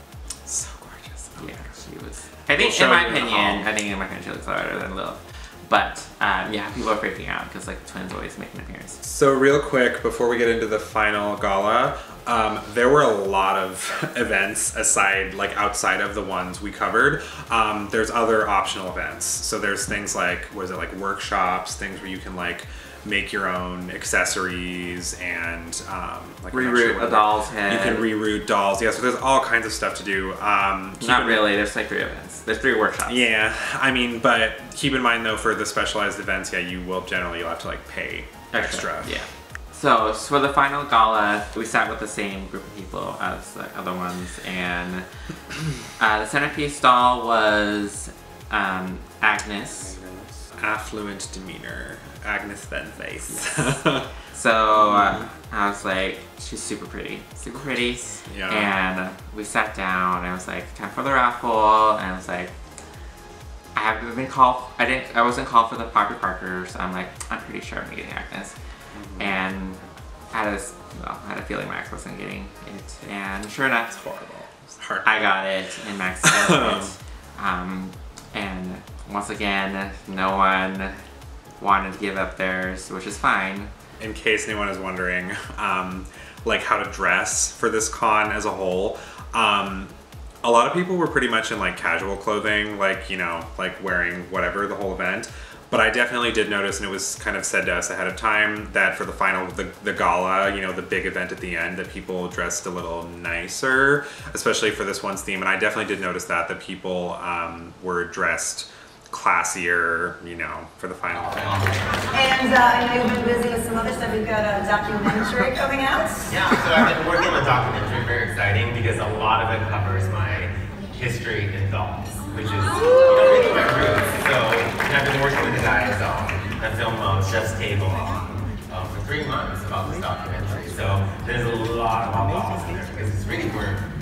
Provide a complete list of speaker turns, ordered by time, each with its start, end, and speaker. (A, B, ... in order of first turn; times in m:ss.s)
0:00.5-0:01.8 A
0:01.4-0:09.0 B
0:02.6-0:03.7 A
0:09.0-0:31.4 A
0:26.5-0:28.1 B
0:31.0-0:33.2 B
0:33.1-0:39.2 A
0:38.5-0:45.1 B
0:46.0-0:50.0 B
0:49.7-0:54.1 A
0:53.3-0:53.7 B
0:54.3-1:02.5 B
0:54.7-0:55.3 A
0:58.2-0:58.8 A
1:03.8-1:08.6 B
1:08.9-1:09.4 A
1:09.2-1:14.0 B
1:13.9-1:15.3 A
1:15.0-1:21.0 B
1:16.2-1:16.9 A
1:21.6-1:23.7 B
1:24.0-1:51.6 A
1:51.3-1:51.8 C
1:52.1-1:56.6 D
1:56.3-2:13.9 C